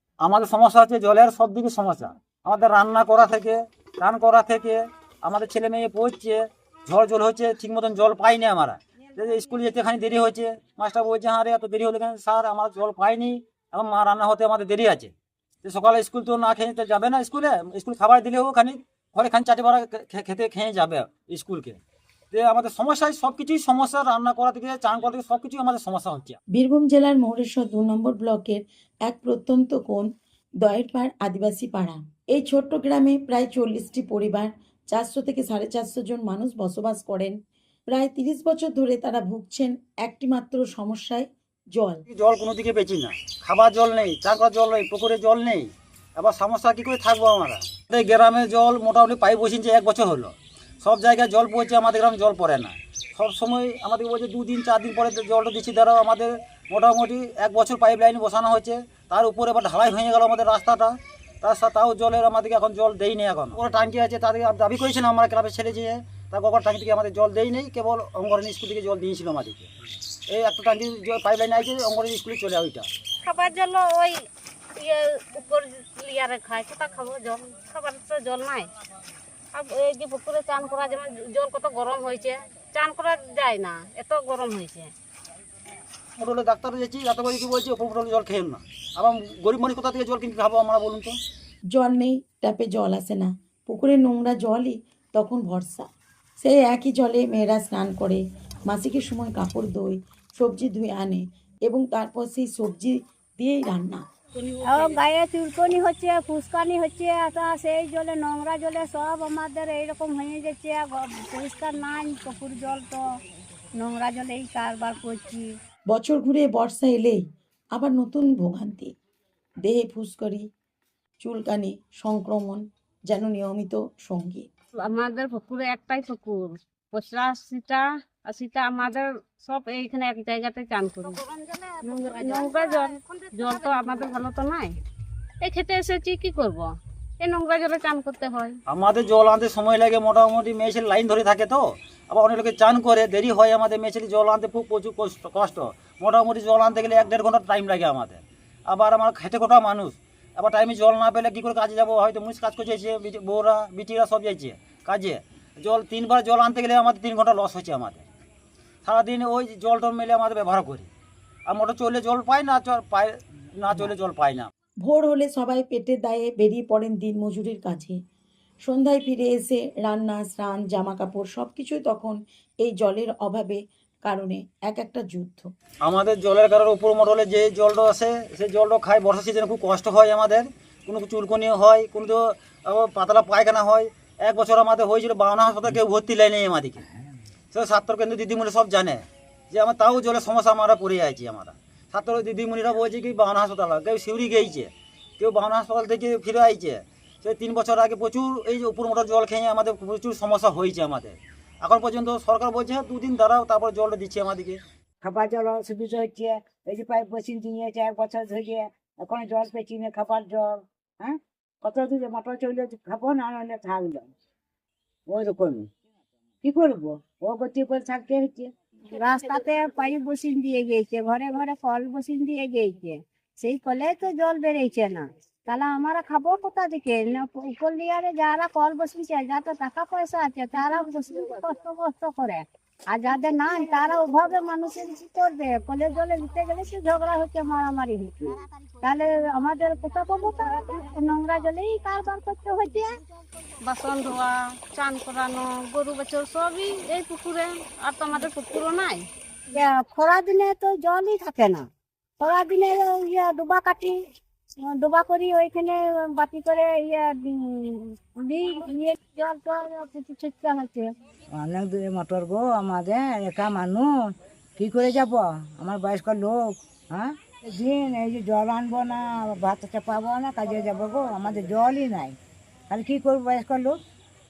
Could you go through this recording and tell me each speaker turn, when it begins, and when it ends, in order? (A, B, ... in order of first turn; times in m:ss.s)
0:00.2-0:15.1 A
0:15.6-0:21.8 A
0:22.3-0:26.4 A
0:26.5-0:30.1 B
0:30.6-0:37.4 B
0:37.9-0:42.0 B
0:42.1-1:09.7 A
1:10.3-1:12.9 A
1:13.2-1:14.2 C
1:14.8-1:18.7 C
1:19.5-1:24.9 C
1:26.2-1:31.2 A
1:31.7-1:35.9 B
1:36.4-1:44.0 B
1:44.4-1:44.9 C
1:44.6-1:53.0 D
1:53.8-1:55.5 D
1:55.9-1:57.2 B
1:57.7-1:58.9 B
1:59.6-2:00.4 B
2:01.2-2:04.5 B
2:04.8-2:14.7 C
2:15.4-2:18.6 C
2:18.7-2:38.0 A
2:38.8-2:40.9 A
2:41.5-2:44.5 A
2:44.8-2:48.0 B
2:48.6-2:55.5 B
2:55.8-3:06.8 A
3:07.5-3:24.6 A
3:25.0-3:34.1 E
3:35.1-3:35.7 E
3:36.4-3:38.5 E
3:38.9-4:02.9 D
4:03.6-4:09.1 C
4:09.5-4:11.7 D
4:12.2-4:14.0 D
4:14.6-4:20.9 D
4:21.3-4:32.2 E
4:32.7-4:33.8 E